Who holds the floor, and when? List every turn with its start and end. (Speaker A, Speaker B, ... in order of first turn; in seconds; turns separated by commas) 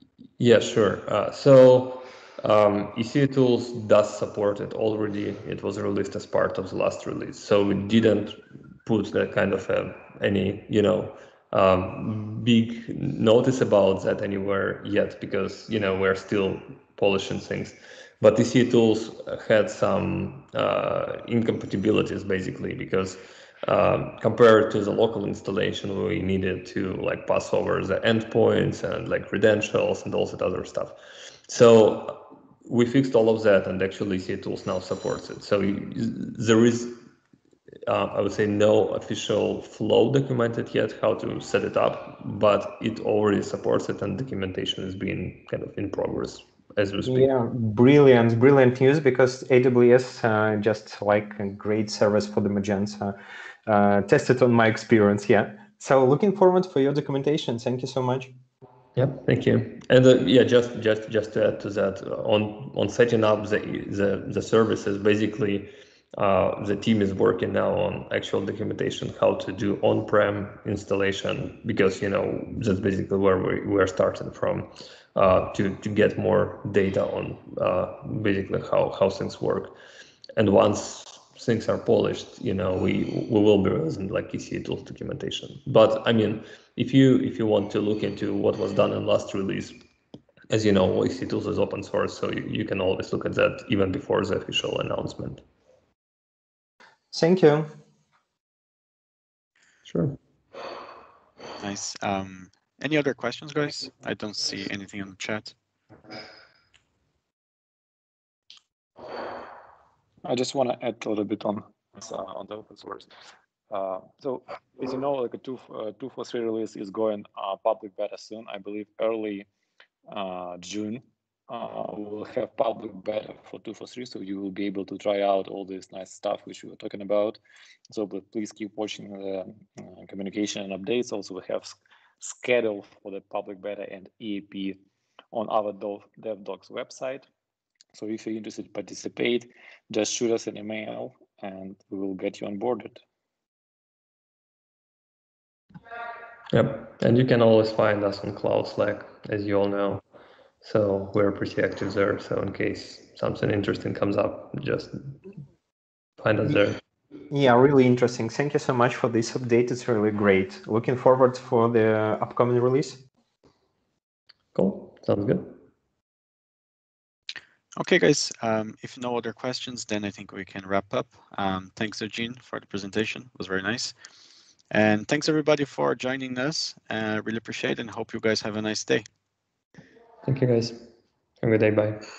Speaker A: 0.4-31.0, Speaker A: 31.5-37.0, Speaker A: 37.9-47.3, Speaker B: 47.0-58.4, Speaker A: 59.0-79.8, Speaker A: 80.4-89.8, Speaker A: 90.5-95.4, Speaker B: 97.1-97.8, Speaker A: 99.9-100.2, Speaker C: 101.6-105.5, Speaker D: 110.2-113.1, Speaker D: 113.7-119.5, Speaker D: 120.1-127.4, Speaker D: 127.9-134.8, Speaker D: 135.3-137.3, Speaker D: 137.9-143.0, Speaker A: 146.5-150.0, Speaker A: 150.6-155.0, Speaker A: 156.2-156.8, Speaker B: 157.3-163.0, Speaker A: 164.6-165.6, Speaker C: 167.8-173.9, Speaker C: 174.7-179.1, Speaker A: 180.2-180.8, Speaker A: 181.4-182.0